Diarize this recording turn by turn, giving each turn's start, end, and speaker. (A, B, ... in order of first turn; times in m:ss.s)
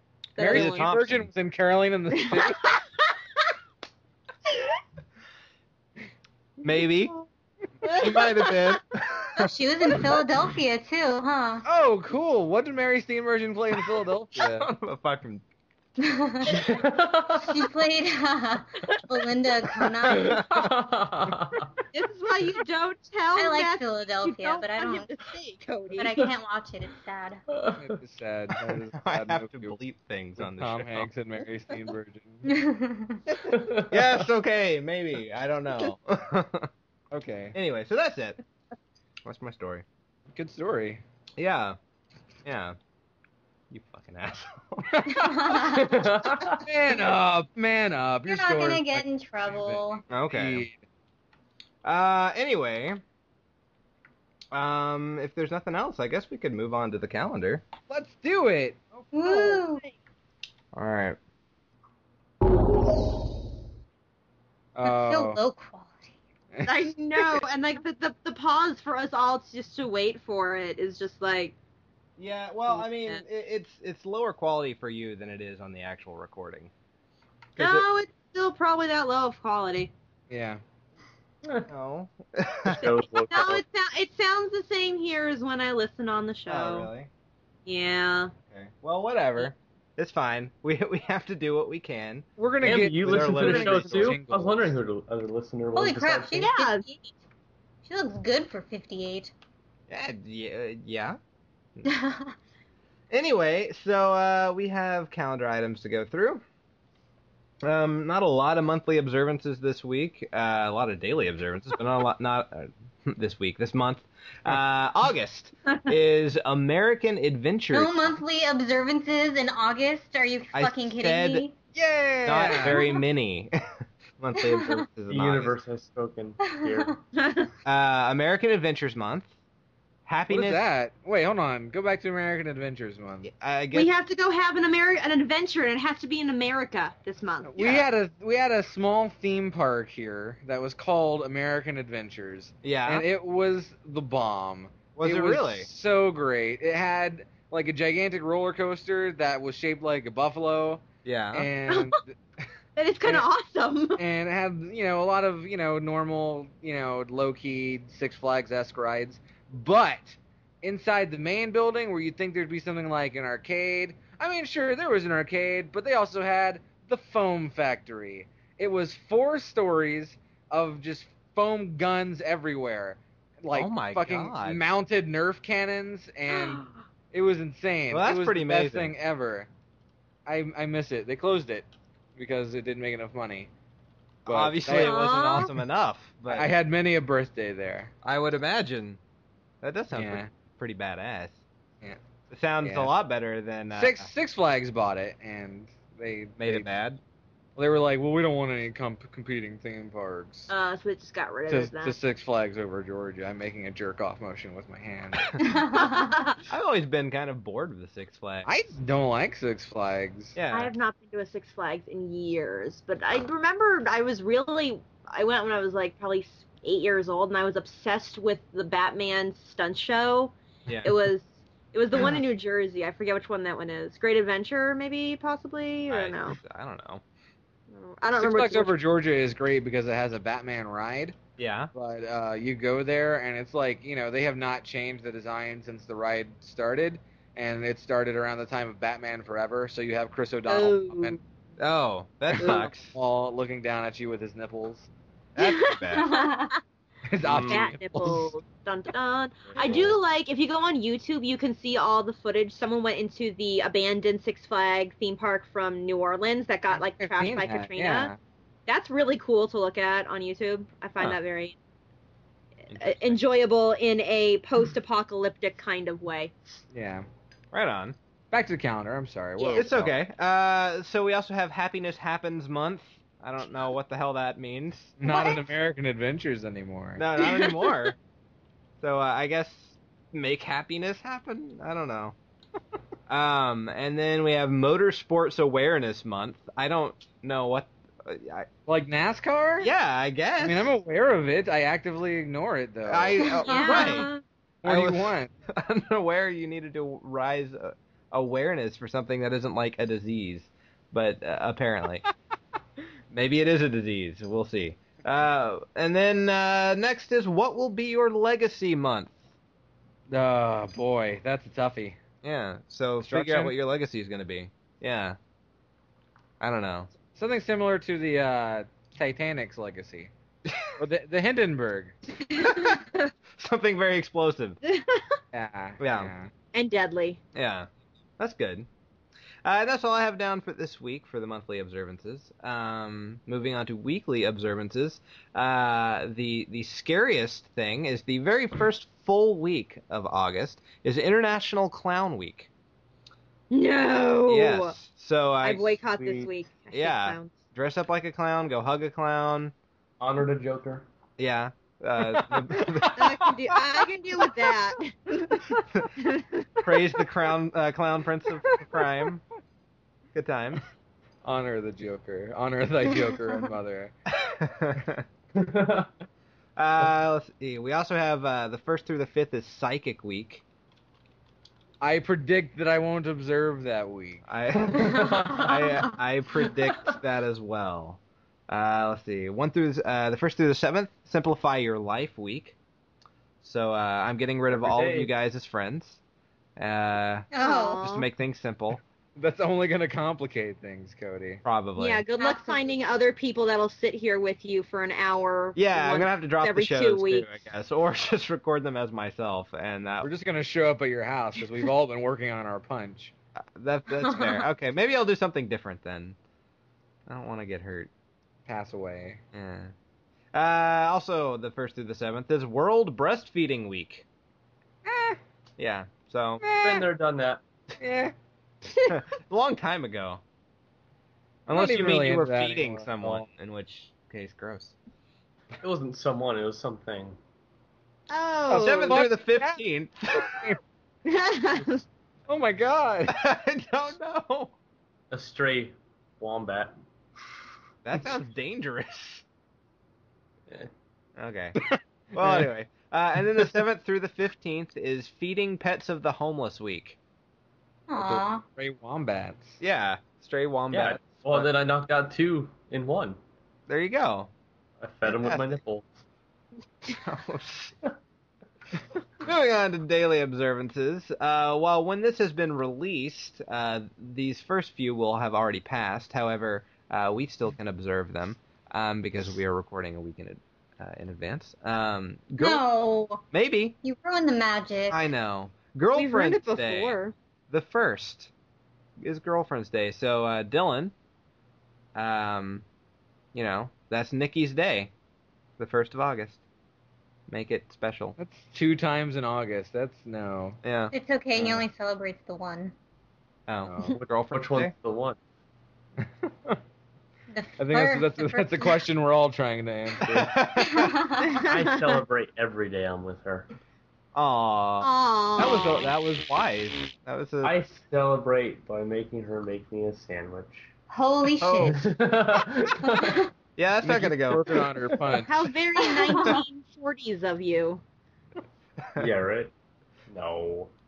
0:00.4-0:00.9 A
0:00.4-0:02.8 B
0:00.5-0:01.3 C
0:02.3-0:02.7 A
0:06.6-0:07.1 C
0:06.7-0:07.2 A
0:07.9-0:08.7 A
0:07.9-0:09.5 C
0:09.4-0:11.6 D
0:11.6-0:14.7 B
0:14.4-0:15.4 C
0:16.0-0:16.8 D
0:16.4-0:17.7 E
0:17.4-0:20.4 D
0:18.9-0:21.7 E
0:21.9-0:26.1 A
0:23.4-0:25.1 D
0:26.0-0:27.4 D
0:26.0-0:26.3 E
0:27.5-0:27.8 E
0:27.8-0:29.8 B
0:29.0-0:31.1 C
0:30.4-0:32.5 B
0:32.5-0:33.2 D
0:33.5-0:34.2 E
0:33.9-0:36.7 C
0:37.1-0:37.6 B
0:37.6-0:38.4 C
0:39.2-0:39.8 C
0:40.3-0:41.0 B
0:41.4-0:41.8 C
0:42.4-0:42.8 C
0:43.7-0:45.1 C
0:44.9-0:45.7 B
0:45.1-0:46.1 D
0:45.6-0:46.6 E
0:46.6-0:50.8 B
0:48.3-0:50.0 D
0:50.1-0:50.6 C
0:51.8-0:53.0 C
0:54.5-0:57.7 C
0:57.9-0:59.1 B
0:59.1-0:59.8 D
0:59.2-0:59.9 A
1:00.7-1:01.2 C
1:04.8-1:05.4 B
1:04.8-1:06.1 D
1:06.5-1:07.4 B
1:06.6-1:11.6 A
1:12.2-1:16.7 C
1:12.7-1:13.2 A
1:17.6-1:17.9 C
1:17.6-1:19.9 A
1:20.3-1:20.6 B
1:21.7-1:22.9 C
1:22.7-1:23.6 E
1:22.8-1:26.9 A
1:26.5-1:27.1 C
1:27.7-1:28.3 A
1:28.5-1:32.3 C
1:32.4-1:34.7 B
1:32.6-1:36.5 E
1:33.0-1:34.2 C
1:35.8-1:37.1 D
1:36.4-1:36.9 A
1:37.8-1:39.3 D
1:39.9-1:41.2 C
1:41.8-1:42.3 D
1:43.1-1:46.4 C
1:47.6-1:58.2 C
1:57.7-2:01.5 D
2:00.5-2:01.4 C
2:01.8-2:02.8 B
2:02.2-2:03.6 C
2:04.2-2:05.5 C
2:04.4-2:04.8 D
2:05.1-2:07.0 E
2:06.6-2:06.9 D
2:07.2-2:07.5 A
2:07.6-2:09.3 C
2:10.1-2:10.6 C
2:10.3-2:13.3 B
2:13.2-2:13.9 C
2:13.7-2:17.8 A
2:17.4-2:32.2 B
2:22.6-2:23.0 C
2:25.0-2:25.7 C
2:31.0-2:31.5 C
2:32.8-2:34.0 A
2:34.0-2:59.5 B
2:53.5-2:54.7 C
2:56.3-2:56.7 A
2:57.9-2:58.9 C
3:00.3-3:03.5 B
3:04.3-3:06.5 C
3:04.3-3:05.0 B
3:04.7-3:05.5 A
3:06.3-3:07.9 B
3:08.0-3:09.0 C
3:09.6-3:11.4 C
3:09.9-3:10.3 B
3:12.3-3:14.1 C
3:12.6-3:12.9 B
3:13.7-3:16.7 B
3:16.4-3:17.0 C
3:17.6-3:20.5 B
3:20.5-3:22.0 A
3:21.5-3:25.4 B
3:25.4-3:26.1 D
3:25.8-3:26.4 A
3:26.5-3:28.5 C
3:28.4-3:30.4 B
3:30.4-3:30.7 C
3:30.5-3:46.4 A
3:40.7-3:41.0 C
3:45.9-3:47.0 C
3:47.7-3:48.7 A
3:48.1-3:51.2 B
3:51.4-3:51.7 C
3:51.7-4:01.2 B
4:00.5-4:01.2 A
4:01.6-4:02.9 C
4:02.4-4:02.7 A
4:02.4-4:04.9 B
4:05.4-4:06.1 C
4:05.4-4:06.6 A
4:05.9-4:06.5 D
4:07.1-4:08.4 B
4:07.3-4:07.6 C
4:07.4-4:18.1 A
4:16.8-4:18.2 B
4:18.7-4:21.6 A
4:22.7-4:26.3 A
4:22.7-4:23.2 C
4:26.7-4:27.1 B
4:27.5-4:28.0 C
4:28.3-4:29.9 B
4:29.4-4:29.6 A
4:29.5-4:35.0 C
4:35.0-4:37.0 B
4:35.0-4:35.4 A
4:37.0-4:38.0 C
4:37.2-4:37.8 A
4:38.8-4:42.2 C
4:43.1-4:48.5 C
4:48.7-4:49.7 B
4:49.6-4:50.7 C
4:50.4-4:54.0 B
4:52.9-4:54.1 C
4:53.2-4:54.0 D
4:53.4-4:54.2 A
4:54.6-4:55.3 B
4:54.6-5:02.0 C
5:03.1-5:09.2 C
5:10.1-5:12.0 B
5:12.2-5:15.2 C
5:13.0-5:13.6 B
5:16.4-5:16.9 C
5:17.1-5:20.1 B
5:20.8-5:22.0 B
5:22.3-5:22.9 A
5:22.4-5:22.8 C
5:23.4-5:24.6 C
5:24.6-5:25.2 A
5:25.3-5:26.3 B
5:25.8-5:26.1 C
5:26.5-5:27.2 A
5:27.3-5:27.7 C
5:28.2-5:28.7 C
5:29.4-5:42.5 C
5:43.5-5:44.8 A
5:44.3-5:49.5 C
5:45.4-5:47.4 A
5:50.0-5:50.8 E
5:51.2-5:53.2 C
5:52.2-5:53.6 B
5:53.0-5:56.6 A
5:56.6-5:59.2 C
6:00.1-6:00.7 C
6:01.2-6:03.9 B
6:04.1-6:05.0 C
6:05.3-6:05.9 E
6:06.6-6:10.4 C
6:11.8-6:14.2 B
6:14.3-6:22.6 C
6:14.6-6:15.6 E
6:23.4-6:26.0 C
6:24.6-6:25.1 E
6:26.6-6:27.3 C
6:27.3-6:28.0 D
6:27.4-6:28.1 A
6:27.8-6:28.8 C
6:29.2-6:31.4 B
6:31.4-6:32.1 C
6:31.8-6:37.4 A
6:32.2-6:32.6 D
6:35.6-6:40.1 C
6:40.0-6:43.1 B
6:43.6-6:46.2 C
6:44.0-6:44.4 D
6:47.1-6:47.9 C
6:48.5-6:49.2 B
6:49.3-6:49.7 C
6:50.3-6:54.0 C
6:54.9-6:55.2 B
6:55.6-6:56.4 C
6:56.4-6:56.9 B
6:56.6-6:57.4 E
6:57.8-6:58.1 B
6:58.9-7:00.2 C
7:01.5-7:04.8 C
7:01.5-7:03.3 B
7:05.6-7:07.2 E
7:08.1-7:09.1 A
7:08.5-7:09.6 B
7:08.5-7:10.5 C
7:10.2-7:10.6 B
7:11.0-7:11.8 A
7:12.3-7:13.2 B
7:13.1-7:14.5 C
7:15.1-7:16.8 E
7:17.8-7:19.2 C
7:21.2-7:21.6 C
7:21.6-7:22.5 B
7:22.1-7:27.0 C
7:27.9-7:28.4 D
7:28.0-7:29.6 B
7:29.6-7:31.5 C
7:30.7-7:33.2 E
7:33.7-7:34.3 C
7:34.8-7:35.9 E
7:35.1-7:35.5 C
7:36.9-7:37.8 C
7:39.2-7:52.6 C
7:52.4-7:53.2 D
7:53.3-7:53.8 C
7:53.8-7:55.1 D
7:54.9-7:57.0 C
7:56.0-7:57.2 A
7:57.5-7:58.3 C
7:59.0-8:00.9 C
8:02.0-8:02.6 C
8:03.3-8:04.9 C
8:05.6-8:06.4 C
8:07.3-8:08.2 C
8:08.2-8:10.6 B
8:10.6-8:10.9 C
8:10.9-8:12.7 D
8:13.5-8:14.7 C
8:13.6-8:14.0 B
8:14.0-8:15.2 E
8:16.0-8:16.6 B
8:17.3-8:18.8 D
8:17.6-8:20.2 B
8:20.1-8:20.3 E
8:20.1-8:21.0 C
8:20.6-8:21.5 D
8:21.3-8:21.6 A
8:21.4-8:23.5 E
8:24.2-8:27.6 C
8:24.8-8:25.9 A
8:27.4-8:30.7 E
8:30.9-8:31.8 D
8:31.4-8:31.8 C
8:31.6-8:33.2 E
8:32.8-8:33.3 D
8:33.6-8:34.5 C
8:33.8-8:35.4 B
8:35.2-8:37.8 A
8:35.8-8:36.4 D
8:39.0-8:39.5 E
8:40.1-8:40.7 E